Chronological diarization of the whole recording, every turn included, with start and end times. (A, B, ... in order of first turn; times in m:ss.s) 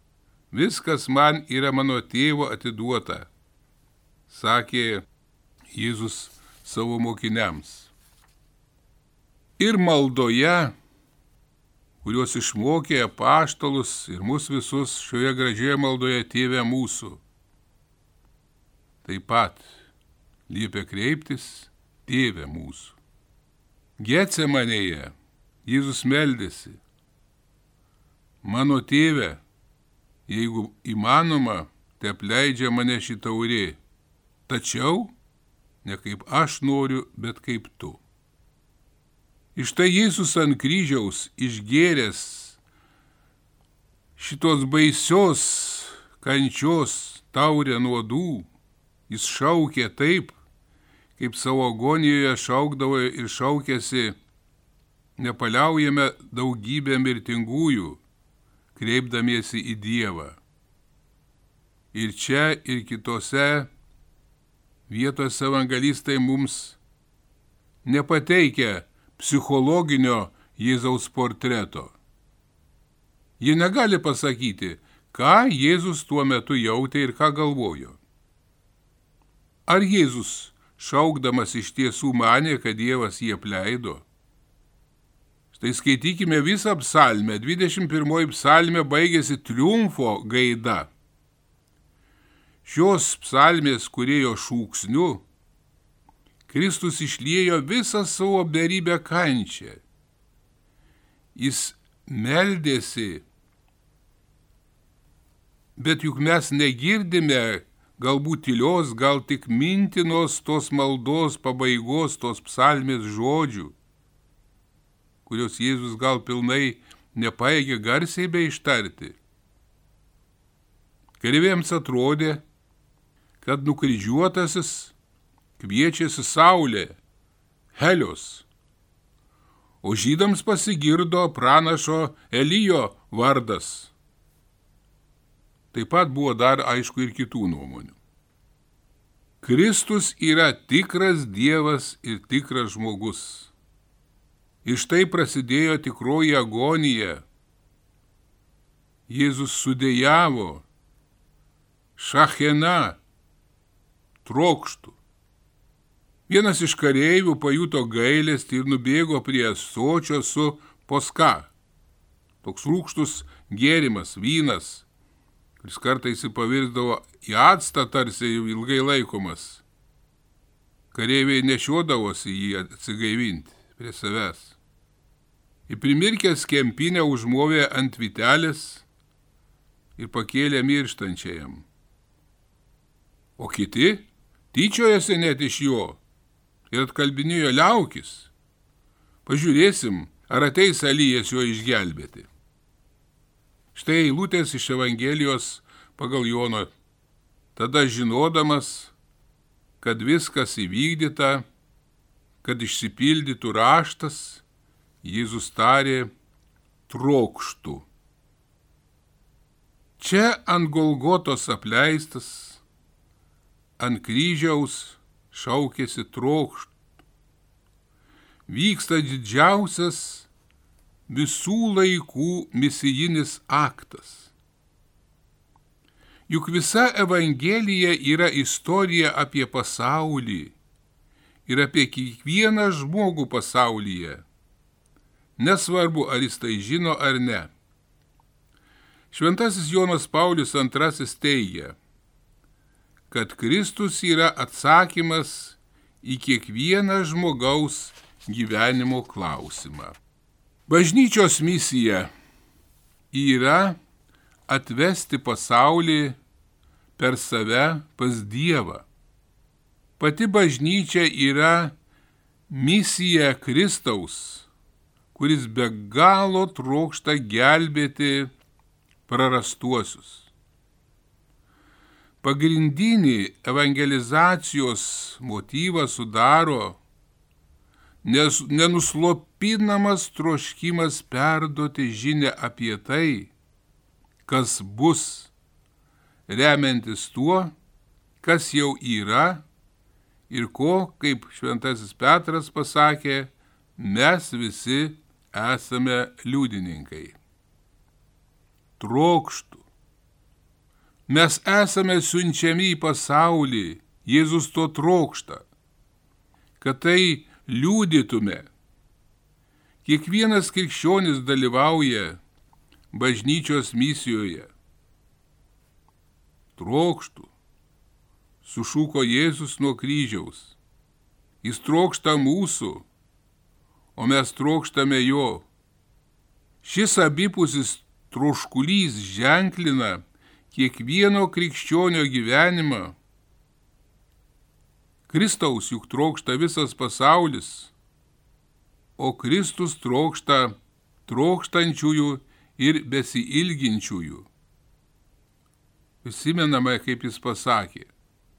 0:00.5-0:03.3 A
0:04.3-0:05.0 A
0:05.7-0:07.9 A
0:09.6-0:10.7 A
0:12.0-0:17.2 A
0:19.0-0:19.8 A
0:20.5-0:23.0 A
0:24.0-0:25.1 A
0:25.6-0:26.8 A
0:28.4-0:29.4 A
0:30.3-0:33.8 A
0:34.5-0:35.1 A
0:35.8-0:38.0 A
0:39.6-0:42.6 A
0:44.2-0:48.5 A
0:49.1-0:50.4 A
0:51.2-0:54.2 A
0:55.2-0:58.0 A
0:58.8-1:00.4 A
1:01.9-1:03.7 A
1:04.9-1:06.8 A
1:07.8-1:12.0 A
1:13.4-1:18.0 A
1:19.7-1:24.0 A
1:25.5-1:30.9 A
1:32.6-1:35.2 A
1:36.5-1:39.8 A
1:41.4-1:43.2 A
1:45.8-1:53.8 A
1:55.3-1:59.2 A
2:01.2-2:02.4 A
2:03.4-2:04.9 A
2:05.6-2:07.0 A
2:07.7-2:08.5 A
2:09.8-2:13.9 A
2:15.7-2:18.0 A
2:19.4-2:23.5 A
2:24.6-2:27.2 A
2:29.1-2:30.6 A
2:32.0-2:33.0 A
2:34.2-2:35.0 A
2:36.3-2:41.5 A
2:42.4-2:44.8 A
2:45.6-2:49.6 A
2:50.9-2:54.6 A
2:55.7-2:58.8 A
3:00.0-3:01.7 A
3:03.4-3:06.0 A
3:06.7-3:08.3 A
3:09.3-3:12.3 A
3:13.7-3:16.7 A
3:17.6-3:18.9 A
3:19.8-3:21.4 A
3:22.4-3:24.4 A
3:25.0-3:26.1 A
3:26.9-3:27.9 A
3:30.0-3:32.6 A
3:33.8-3:36.7 A
3:38.5-3:40.3 A
3:41.1-3:44.3 A
3:46.3-3:50.5 A
3:51.5-3:54.2 A
3:55.4-3:57.5 A
3:59.1-4:01.8 A
4:03.1-4:10.0 A
4:10.7-4:12.1 A
4:13.1-4:13.8 A
4:14.5-4:16.2 A
4:17.0-4:18.9 A
4:20.0-4:21.8 A
4:22.5-4:24.5 A
4:25.1-4:28.3 A
4:29.1-4:30.3 A
4:32.2-4:36.8 A
4:38.0-4:43.3 A
4:44.3-4:45.3 A
4:46.3-4:47.5 A
4:48.2-4:49.4 A
4:50.3-4:57.2 A
4:58.8-4:59.6 A
5:01.1-5:05.4 A
5:06.6-5:08.5 A
5:09.8-5:12.2 A
5:12.9-5:14.5 A
5:16.6-5:17.3 A
5:18.4-5:20.6 A
5:21.4-5:22.9 A
5:24.0-5:25.5 A
5:26.6-5:33.0 A
5:35.1-5:37.7 A
5:39.0-5:44.3 A
5:46.0-5:47.9 A